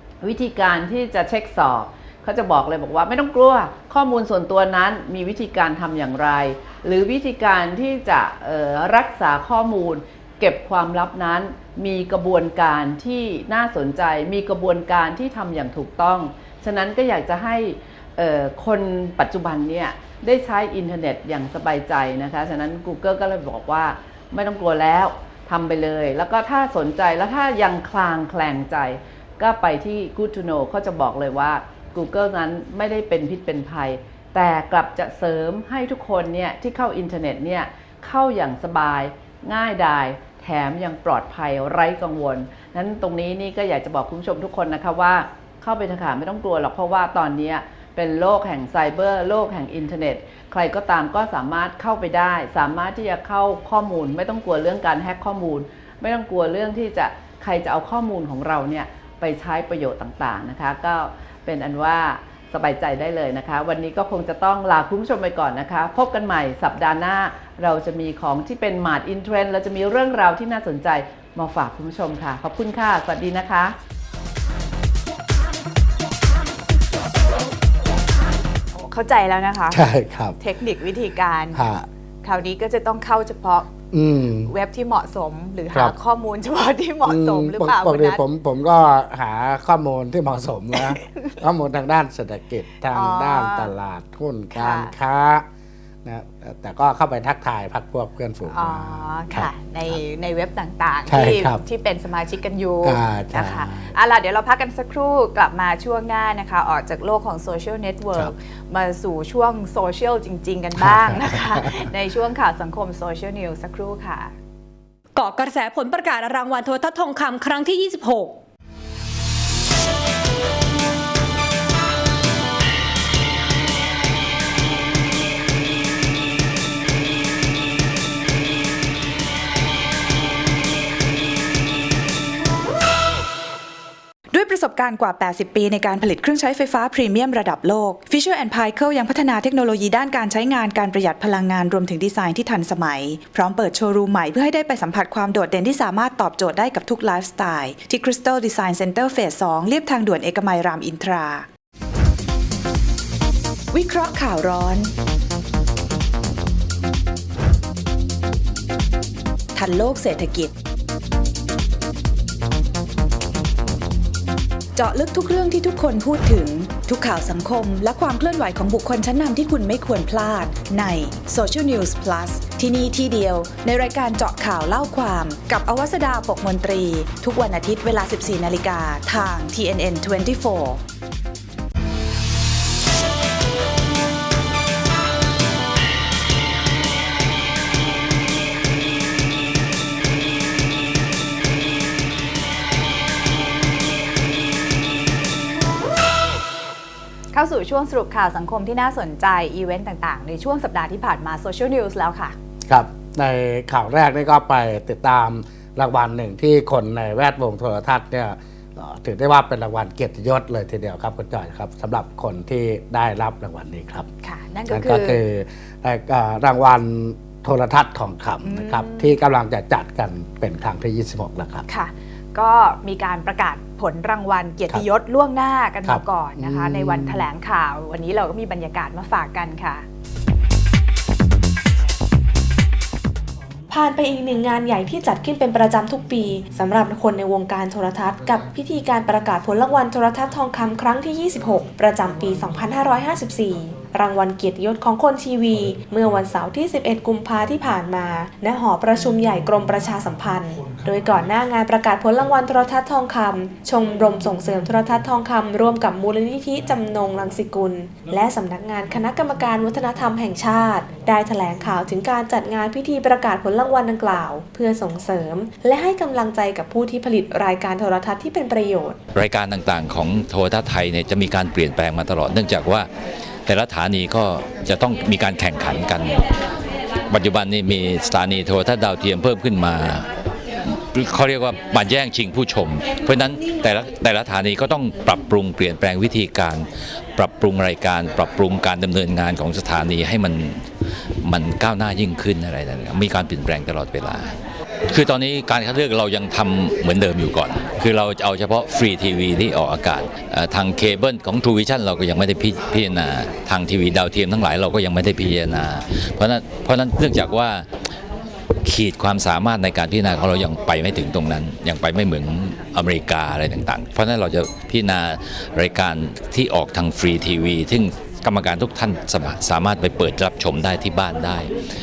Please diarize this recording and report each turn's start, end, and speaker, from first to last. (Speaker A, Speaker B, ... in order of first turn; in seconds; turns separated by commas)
Speaker A: 0.2-73.8, Speaker B: 78.8-79.9, Speaker C: 79.7-80.4, Speaker B: 80.4-81.6, Speaker C: 81.5-81.9, Speaker B: 82.2-83.7, Speaker C: 83.9-84.5, Speaker B: 84.5-88.2, Speaker C: 87.0-95.5, Speaker B: 90.8-91.4, Speaker B: 92.9-93.7, Speaker B: 94.5-94.9, Speaker C: 96.0-100.0, Speaker B: 98.5-114.3, Speaker C: 101.1-101.6, Speaker C: 102.8-103.9, Speaker C: 110.8-111.6, Speaker D: 115.1-118.4, Speaker E: 134.3-151.5, Speaker E: 153.7-154.9, Speaker E: 159.6-160.5, Speaker E: 164.8-180.8, Speaker B: 197.3-202.4, Speaker C: 202.7-214.1, Speaker B: 214.2-215.2, Speaker C: 214.7-221.7, Speaker B: 218.4-219.2, Speaker B: 221.7-229.8, Speaker C: 225.8-227.3, Speaker F: 233.7-269.0, Speaker G: 269.1-272.9, Speaker G: 273.5-276.2, Speaker G: 277.1-280.1, Speaker G: 280.9-290.6, Speaker G: 291.2-294.3, Speaker G: 294.9-307.7, Speaker G: 308.6-321.5